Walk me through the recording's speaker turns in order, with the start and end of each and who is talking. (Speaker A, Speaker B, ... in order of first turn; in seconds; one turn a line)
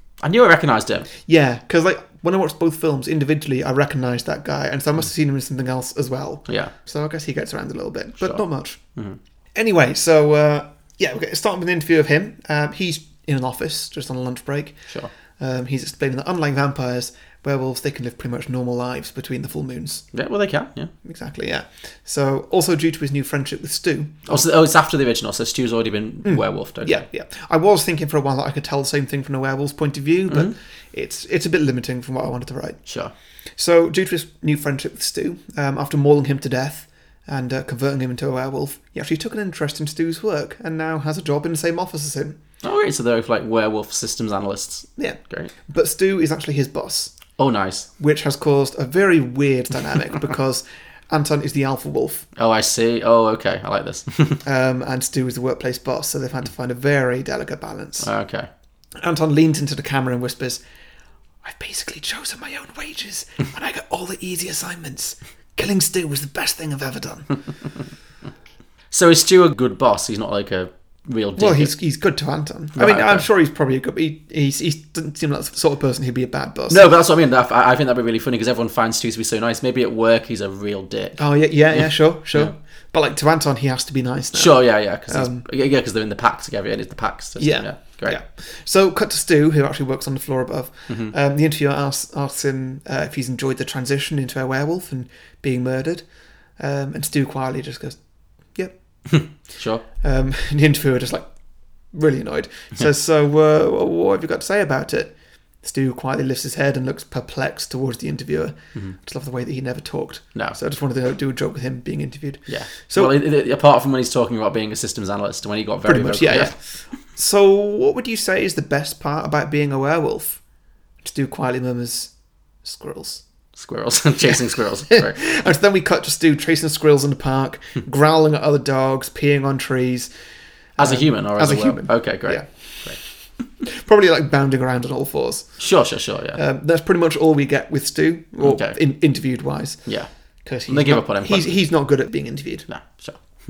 Speaker A: 0.2-1.1
Speaker B: 1.2-8.8
Speaker A: 6.5-6.7
Speaker B: 9.6-20.1
Speaker A: 20.1-20.9
Speaker B: 21.0-24.4
Speaker A: 24.3-27.1
Speaker B: 26.2-32.8
Speaker A: 30.3-30.5
Speaker A: 32.9-33.1
Speaker B: 33.6-42.4
Speaker A: 42.6-45.5
Speaker B: 45.0-47.1
Speaker A: 47.4-47.9
Speaker B: 48.0-52.2
Speaker A: 52.4-54.4
Speaker B: 54.5-58.1
Speaker A: 58.0-58.5
Speaker B: 59.0-60.6
Speaker B: 61.4-67.4
Speaker A: 68.9-71.7
Speaker B: 71.4-76.9
Speaker A: 72.8-73.3
Speaker A: 76.7-82.5
Speaker B: 81.2-85.5
Speaker A: 84.3-88.2
Speaker B: 87.4-98.0
Speaker A: 90.9-91.1
Speaker B: 98.5-99.4
Speaker A: 99.1-99.8
Speaker B: 100.0-101.3
Speaker B: 101.8-113.2
Speaker A: 112.5-116.6
Speaker B: 115.9-120.4
Speaker B: 121.0-122.1
Speaker B: 122.6-123.2
Speaker A: 123.6-125.2
Speaker B: 124.9-130.1
Speaker B: 130.8-133.0
Speaker A: 130.8-133.0
Speaker B: 133.7-135.7
Speaker A: 135.6-136.4
Speaker B: 136.3-139.9
Speaker A: 138.4-138.8
Speaker B: 140.4-142.7
Speaker A: 140.7-141.6
Speaker A: 142.7-143.2